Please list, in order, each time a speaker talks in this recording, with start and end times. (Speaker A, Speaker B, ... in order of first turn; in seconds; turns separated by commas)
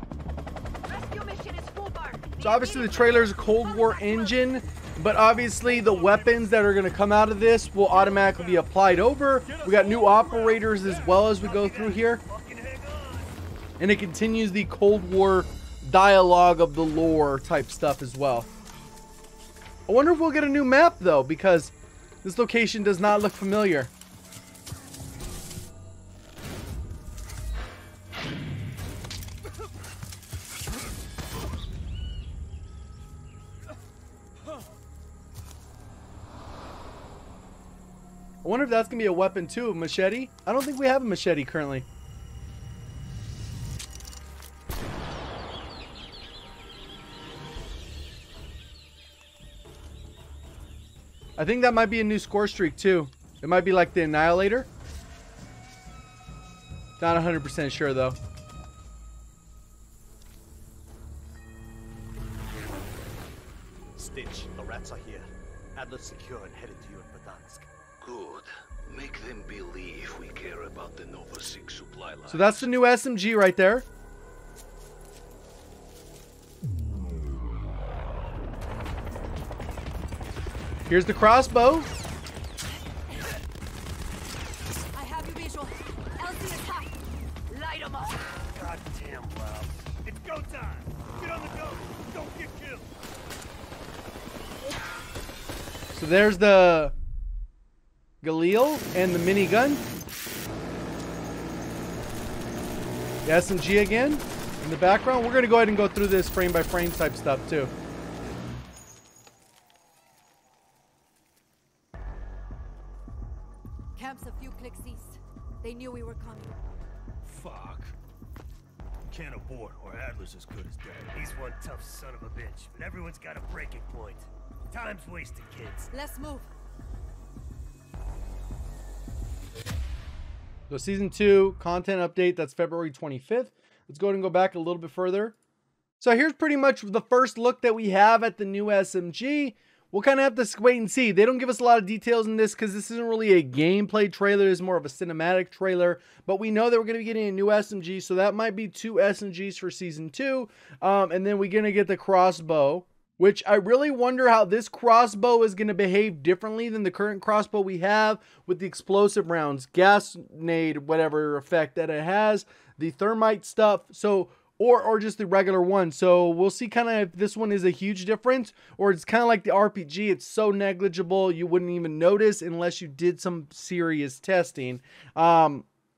Speaker A: 0.9-4.2, Speaker B: 2.4-12.2, Speaker C: 9.6-13.3, Speaker B: 13.8-18.5, Speaker B: 19.9-23.9, Speaker B: 38.4-41.9, Speaker B: 51.4-54.7, Speaker B: 57.0-58.2, Speaker C: 64.0-67.7, Speaker D: 68.0-72.7, Speaker B: 72.3-73.9, Speaker B: 80.9-81.9, Speaker A: 84.9-87.0, Speaker A: 87.5-88.3, Speaker C: 88.3-92.9, Speaker B: 95.9-96.9, Speaker B: 98.2-99.8, Speaker B: 103.2-107.7, Speaker A: 114.0-116.6, Speaker C: 117.2-118.0, Speaker C: 119.0-125.9, Speaker A: 126.0-126.5, Speaker B: 130.7-135.3, Speaker B: 136.0-175.7